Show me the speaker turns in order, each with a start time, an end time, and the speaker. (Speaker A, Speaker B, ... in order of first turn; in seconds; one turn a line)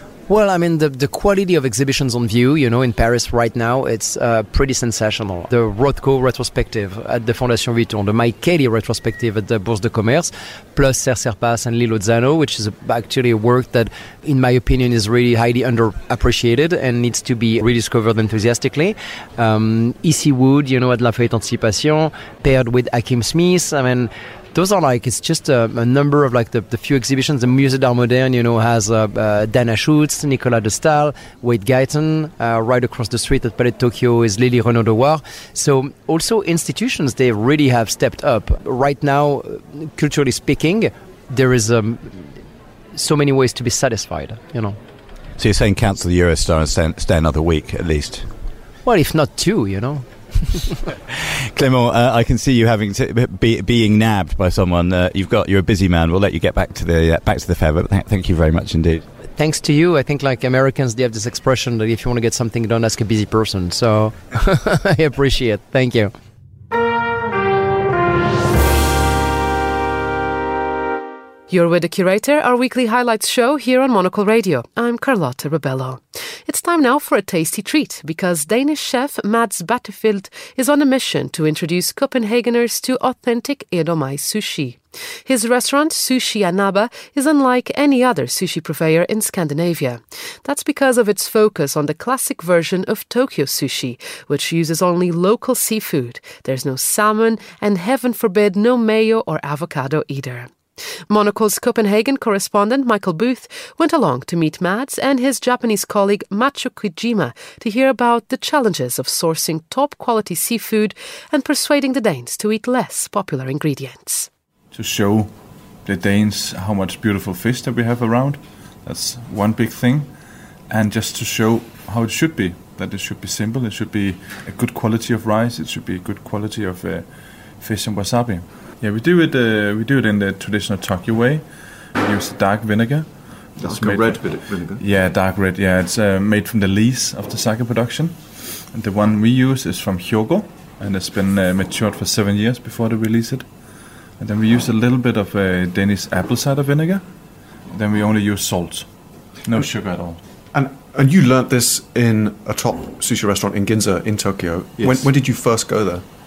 Speaker A: 0.3-44.8
Speaker B: 45.4-48.3
Speaker A: 48.8-50.7
Speaker B: 51.1-59.0
Speaker A: 59.2-66.1
Speaker C: 71.5-100.6
Speaker C: 101.1-114.3
Speaker D: 114.7-147.1
Speaker E: 133.6-134.8
Speaker D: 147.6-150.2
Speaker E: 150.5-156.0
Speaker D: 154.8-155.1